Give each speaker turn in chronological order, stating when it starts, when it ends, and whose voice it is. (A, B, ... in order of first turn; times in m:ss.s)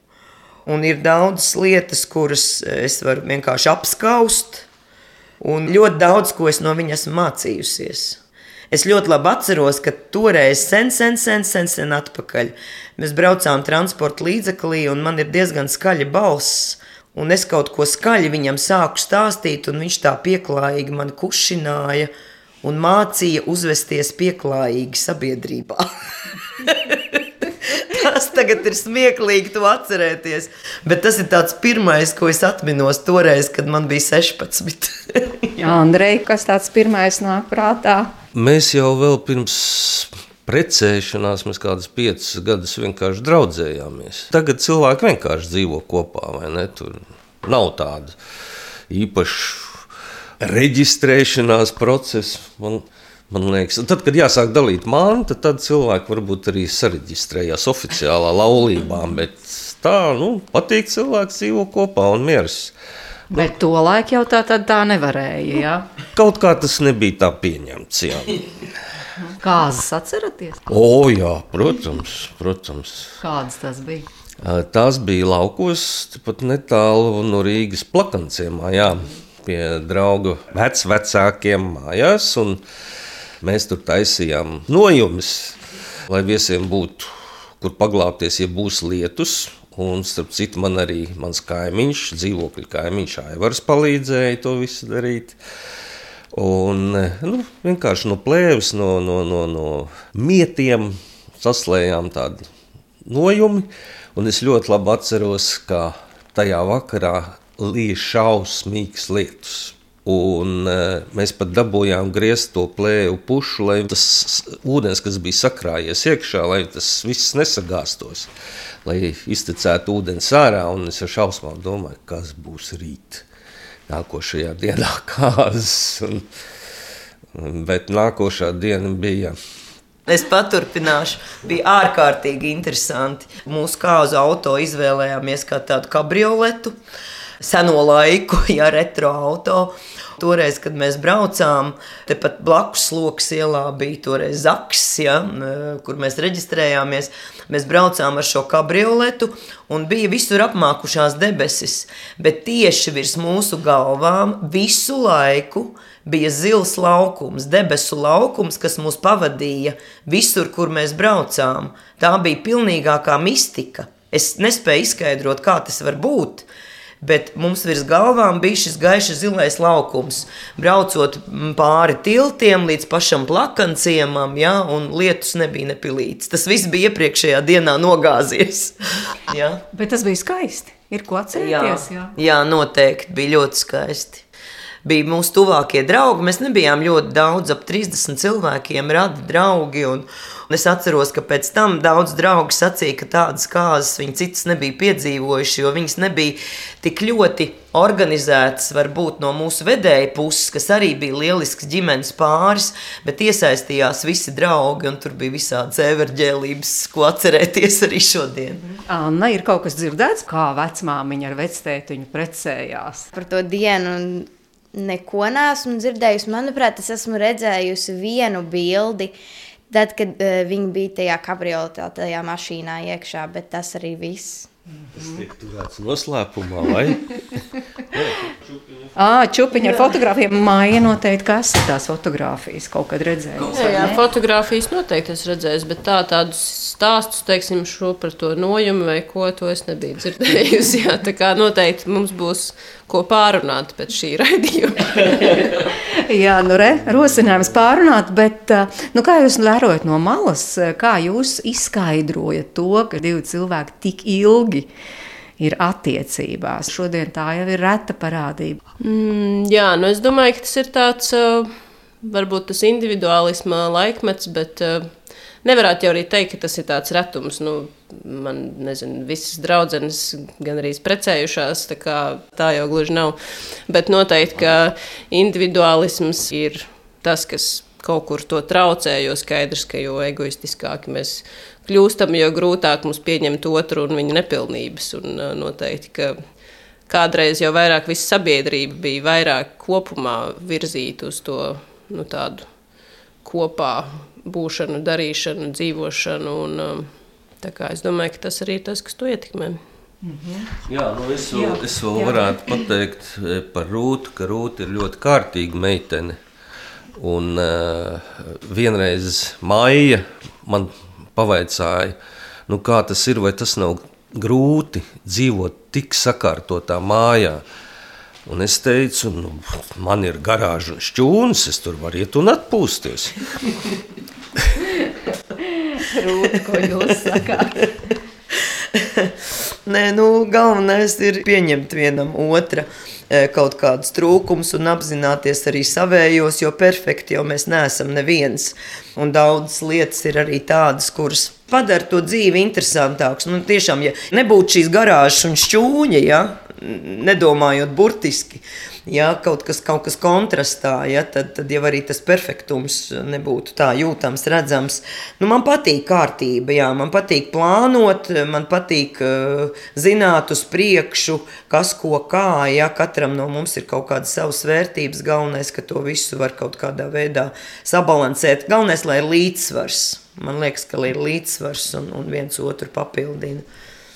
0:00.7-0:04.7 A
0:05.4-0:08.2 A
0:08.7-0:22.1 A
0:22.6-0:25.9 A
0:26.6-0:35.7 A
0:35.6-0:38.1 B
0:38.3-0:48.2 C
0:48.9-0:49.8 C
0:50.4-1:02.7 C
1:03.3-1:05.9 B
1:06.2-1:08.4 C
1:09.2-1:10.7 B
1:10.7-1:13.1 C
1:13.2-1:14.1 B
1:14.4-1:22.6 C
1:23.4-1:25.6 C
1:26.1-1:35.4 C
1:36.3-1:42.4 C
1:43.0-1:58.3 C
1:58.8-2:03.2 C
2:03.9-2:06.2 C
2:07.3-2:09.4 C
2:10.1-2:16.8 A
2:17.4-2:46.5 A
2:47.0-2:59.6 A
2:59.7-3:02.1 B
3:01.3-3:04.2 A
3:04.8-3:28.6 A
3:28.6-3:33.1 B
3:33.1-3:39.1 D
3:39.7-3:44.5 D
3:45.0-3:48.9 C
3:49.0-3:54.0 B
3:53.5-4:05.4 E
4:06.0-4:14.7 B
4:15.4-4:18.6 B
4:18.8-4:33.2 E
4:33.7-4:46.2 E
4:46.9-4:52.5 E
4:53.2-4:56.9 E
4:57.4-4:59.6 E
5:00.0-5:00.5 B
5:00.7-5:06.2 C
5:01.4-5:02.3 B
5:07.0-5:12.0 C
5:12.5-5:17.4 C
5:18.3-5:23.2 C
5:25.5-5:27.6 B
5:28.7-5:29.1 A
5:29.7-6:13.4 A